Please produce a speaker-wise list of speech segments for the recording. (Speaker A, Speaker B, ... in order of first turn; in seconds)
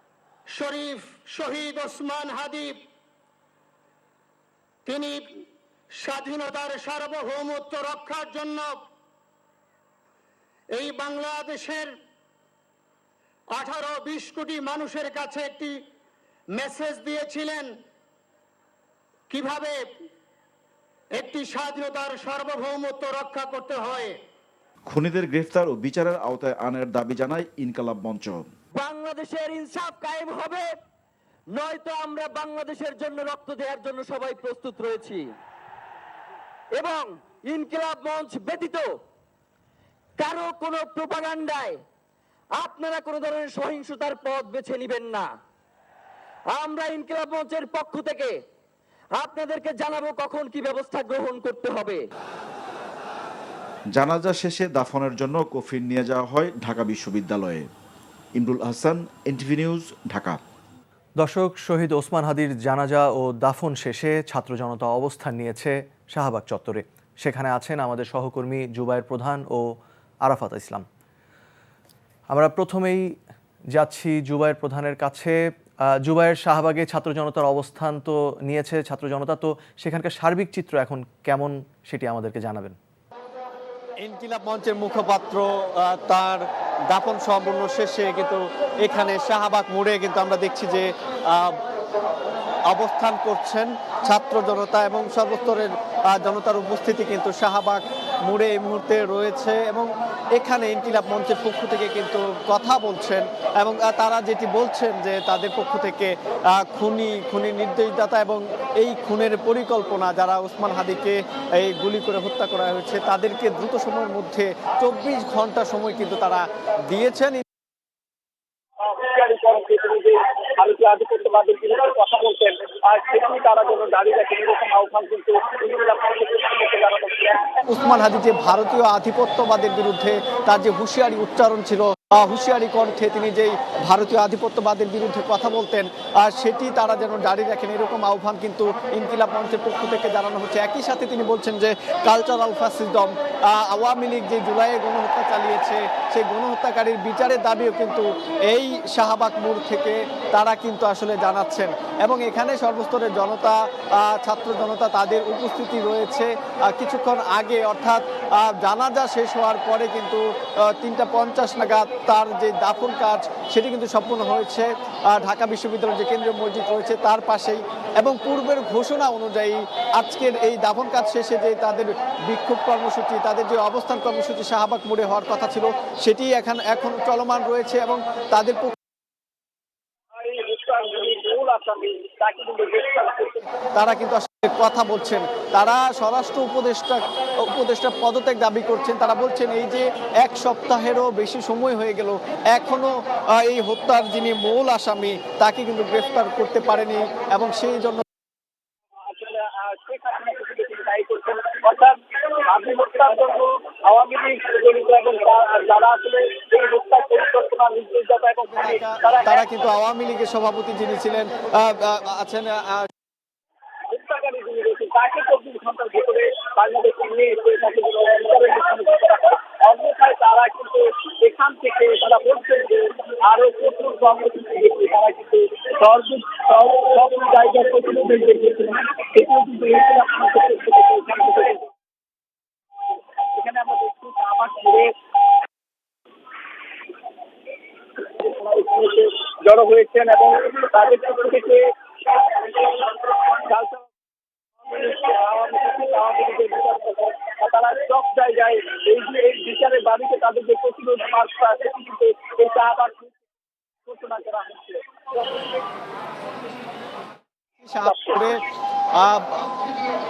Speaker A: 0.6-2.8, 4.9-5.2, 6.0-8.8, 10.8-11.9, 13.5-15.8, 16.6-17.7, 19.3-19.8, 21.1-24.2
Speaker B: 24.9-28.4, 54.0-57.7, 58.4-60.4
Speaker C: 28.7-30.7, 31.5-35.3, 36.7-38.9, 40.2-41.8, 42.6-45.3, 46.5-48.4, 49.1-52.0
Speaker D: 61.2-69.7, 70.2-70.8, 72.3-73.2, 73.7-82.8
Speaker E: 84.0-91.6, 92.7-106.1, 106.6-117.4, 127.7-160.2, 160.7-178.7, 183.8-198.0, 208.4-212.8, 257.6-258.4, 259.0-259.5
Speaker F: 118.9-127.4, 180.2-183.5, 199.1-201.9, 202.5-209.4, 213.9-231.6, 233.4-234.9, 238.2-241.6, 243.5-243.8, 244.7-253.1, 253.9-254.8, 257.9-258.2